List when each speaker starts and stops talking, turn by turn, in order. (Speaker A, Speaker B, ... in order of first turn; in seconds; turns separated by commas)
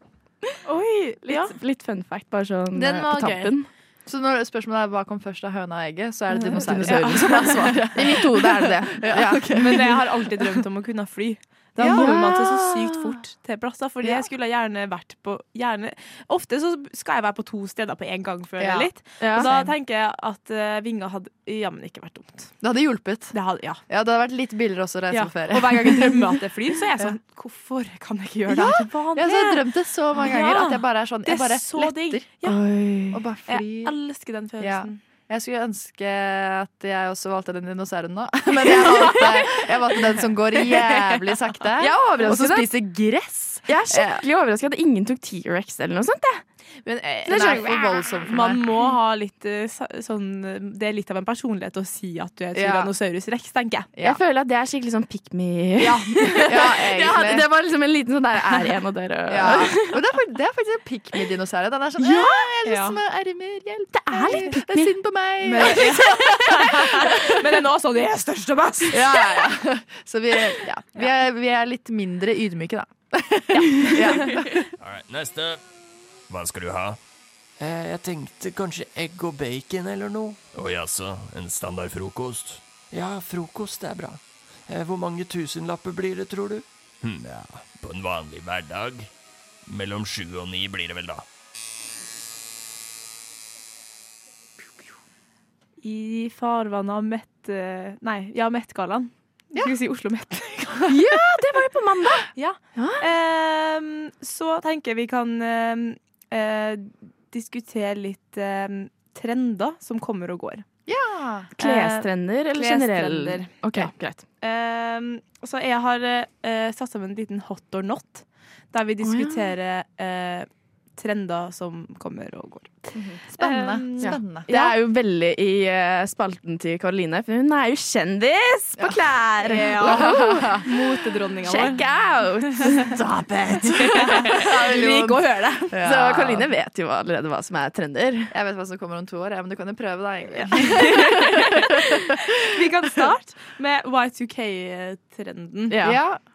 Speaker A: 0.7-1.5, Speaker B: 1.2-3.7, Speaker C: 2.7-3.5, Speaker C: 4.0-10.6, Speaker A: 6.3-7.8, Speaker B: 6.5-9.5, Speaker A: 9.5-22.5, Speaker C: 11.8-12.1, Speaker B: 11.8-13.0, Speaker C: 18.6-18.9, Speaker B: 19.2-19.7, Speaker C: 22.6-23.3, Speaker A: 23.3-23.8, Speaker C: 23.9-26.4, Speaker A: 25.1-32.6, Speaker C: 28.5-32.4, Speaker B: 32.4-33.2, Speaker C: 33.1-34.0, Speaker A: 33.5-35.0, Speaker C: 34.6-44.2, Speaker A: 38.7-39.4, Speaker A: 40.7-41.2, Speaker B: 41.8-42.7, Speaker B: 43.6-46.4, Speaker A: 46.8-53.9, Speaker C: 47.2-48.7, Speaker B: 47.2-48.0, Speaker C: 52.5-52.9, Speaker B: 54.0-60.0, Speaker C: 55.9-57.5, Speaker C: 59.3-67.5, Speaker B: 62.0-62.7, Speaker A: 62.6-62.9, Speaker B: 63.9-64.9, Speaker A: 65.4-69.2, Speaker C: 68.9-74.7, Speaker A: 74.0-74.4, Speaker D: 74.8-75.6, Speaker D: 76.3-77.0, Speaker E: 77.6-80.4, Speaker D: 80.5-82.6, Speaker E: 82.9-86.7, Speaker D: 87.0-89.1, Speaker D: 89.7-91.2, Speaker A: 95.8-100.9, Speaker B: 100.9-103.0, Speaker A: 102.3-110.7, Speaker C: 110.8-111.5, Speaker A: 111.6-113.6, Speaker B: 111.6-114.3, Speaker A: 114.4-122.8, Speaker B: 119.0-119.5, Speaker C: 123.3-124.7, Speaker A: 123.3-124.2, Speaker B: 124.0-130.6, Speaker C: 128.8-129.0, Speaker A: 129.4-131.8, Speaker C: 129.6-130.7, Speaker B: 131.4-132.9, Speaker C: 133.3-136.5, Speaker A: 133.7-135.8, Speaker B: 135.7-138.3, Speaker C: 138.3-142.0, Speaker A: 140.3-141.6, Speaker A: 142.5-145.8, Speaker B: 145.7-146.0, Speaker C: 145.8-146.2